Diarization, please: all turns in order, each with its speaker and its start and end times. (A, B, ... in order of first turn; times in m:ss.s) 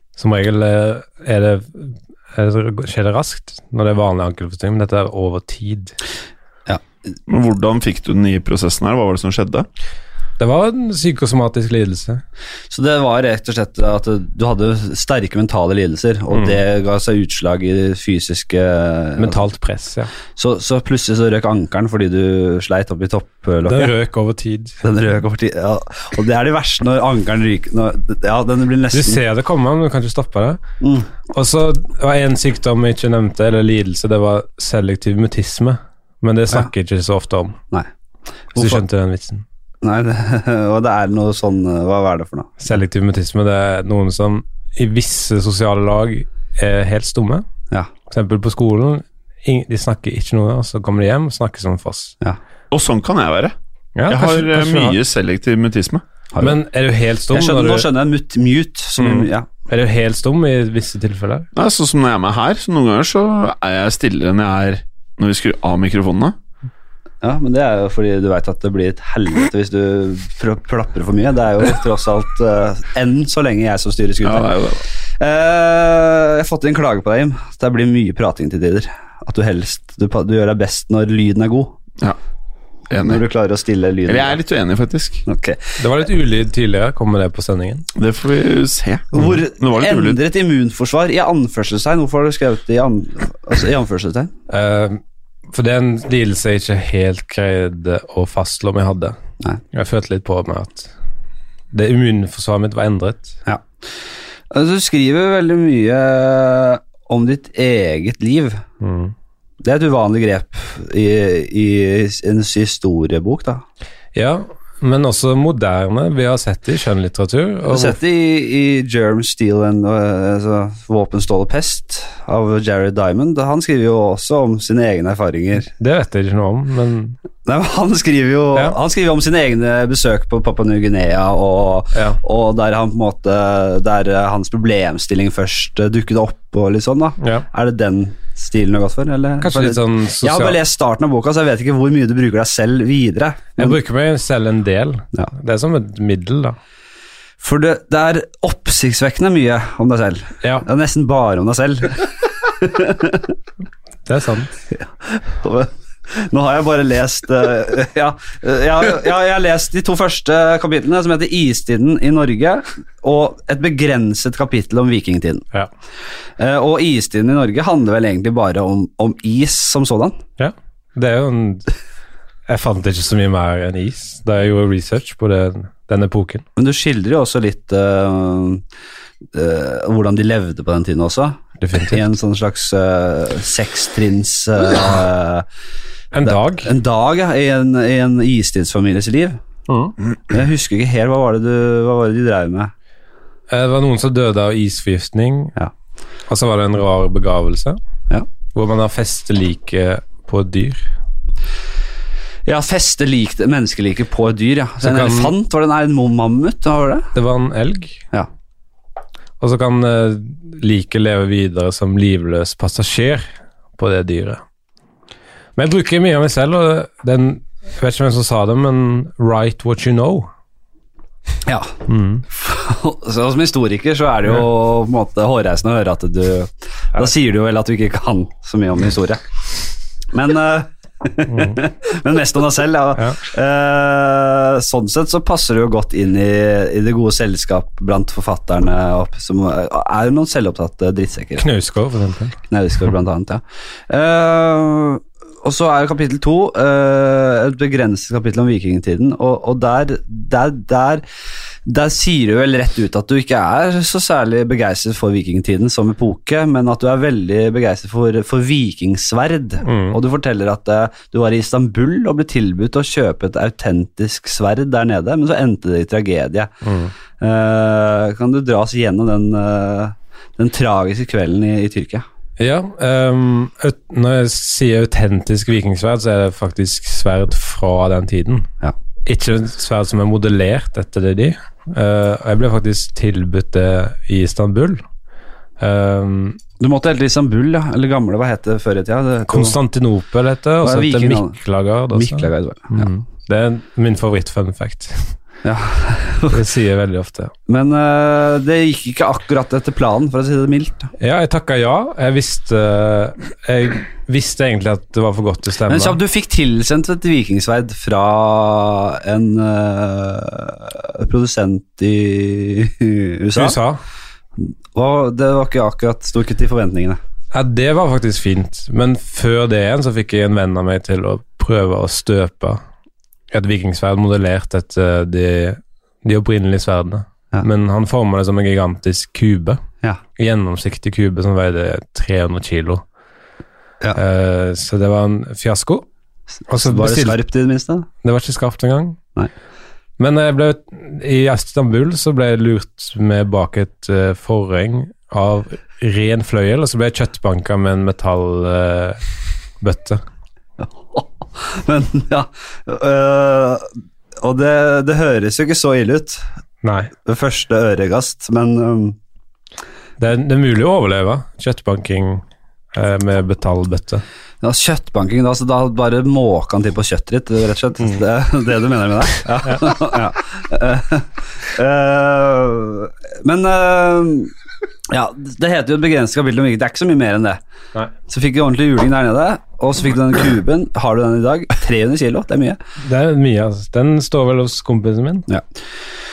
0:00.2-0:06.0 A
0:07.3-0:09.7 B
0:10.4-0:12.2 A
0:12.7-0:19.4 C
0:16.3-0:16.6 A
0:19.2-0:20.1 A
0:20.4-0:23.9 C
0:23.7-0:24.8 A
0:24.8-0:29.2 C
0:28.9-0:30.6 A
0:30.8-0:31.1 C
0:31.2-0:37.6 A
0:38.5-0:38.8 C
0:38.6-0:39.4 A
0:39.8-0:42.6 C
0:42.6-0:47.5 A
0:48.1-0:52.2 A
0:52.7-0:53.6 B
0:54.0-0:55.0 A
0:54.1-0:56.0 B
0:56.4-0:57.9 A
0:57.3-0:59.5 C
0:59.0-1:01.5 A
1:01.6-1:06.4 B
1:07.2-1:14.6 C
1:14.2-1:14.8 B
1:15.2-1:21.8 C
1:22.9-1:23.2 B
1:23.0-1:24.4 C
1:24.1-1:25.2 B
1:25.3-1:25.8 C
1:25.8-1:27.9 A
1:28.0-1:30.2 B
1:29.1-1:34.3 C
1:34.5-1:35.0 A
1:35.5-1:39.2 A
1:39.7-1:40.9 A
1:41.7-1:43.4 A
1:44.5-1:48.6 C
1:48.8-1:49.1 A
1:49.6-1:53.6 C
1:54.1-1:58.0 A
1:57.7-2:05.7 C
2:05.6-2:07.2 A
2:07.4-2:23.8 C
2:11.9-2:12.2 A
2:17.2-2:17.4 A
2:19.4-2:20.6 A
2:23.6-2:26.6 A
2:27.4-2:33.3 C
2:34.1-2:34.5 A
2:34.8-2:45.5 C
2:46.4-2:50.2 C
2:50.4-2:51.7 A
2:52.5-2:56.4 A
2:56.6-2:58.6 C
2:59.3-3:05.5 C
3:01.6-3:02.0 A
3:06.1-3:06.7 A
3:06.2-3:09.4 C
3:09.7-3:10.0 A
3:10.3-3:12.7 C
3:13.5-3:15.6 A
3:16.3-3:17.8 A
3:18.5-3:20.8 A
3:22.5-3:27.1 C
3:24.8-3:25.3 A
3:27.2-3:28.0 A
3:29.4-3:33.3 A
3:33.8-3:34.4 A
3:35.6-3:40.3 A
3:41.5-3:41.8 C
3:41.9-3:42.2 A
3:42.3-3:49.2 C
3:50.1-4:01.5 C
3:51.3-3:51.6 A
4:01.4-4:02.4 A
4:02.5-4:11.0 C
4:11.7-4:26.5 C
4:19.6-4:20.0 A
4:26.6-4:26.9 A
4:27.2-4:32.0 C
4:32.4-4:38.5 A
4:39.0-4:44.8 A
4:45.6-4:46.4 A
4:46.6-4:49.6 C
4:49.3-4:55.1 A
4:50.6-4:51.4 C
4:51.9-4:52.9 C
4:55.4-4:56.4 C
4:56.3-4:57.3 A
4:57.5-5:00.9 C
5:01.0-5:06.0 A
5:05.7-5:13.6 C
5:13.4-5:13.8 A
5:14.4-5:17.0 C
5:17.3-5:22.6 A
5:23.3-5:29.6 A
5:30.2-5:32.8 A
5:34.0-5:35.9 A
5:36.5-5:37.2 A
5:36.5-5:37.9 C
5:38.0-5:39.0 A
5:40.0-5:49.0 A
5:49.6-5:50.0 A
5:50.6-5:56.2 C
5:56.6-5:56.9 A
5:57.0-5:59.0 C
6:00.0-6:04.0 A
6:04.4-6:14.3 C
6:09.4-6:09.8 A
6:14.9-6:17.4 C
6:18.1-6:22.6 C
6:22.8-6:25.3 A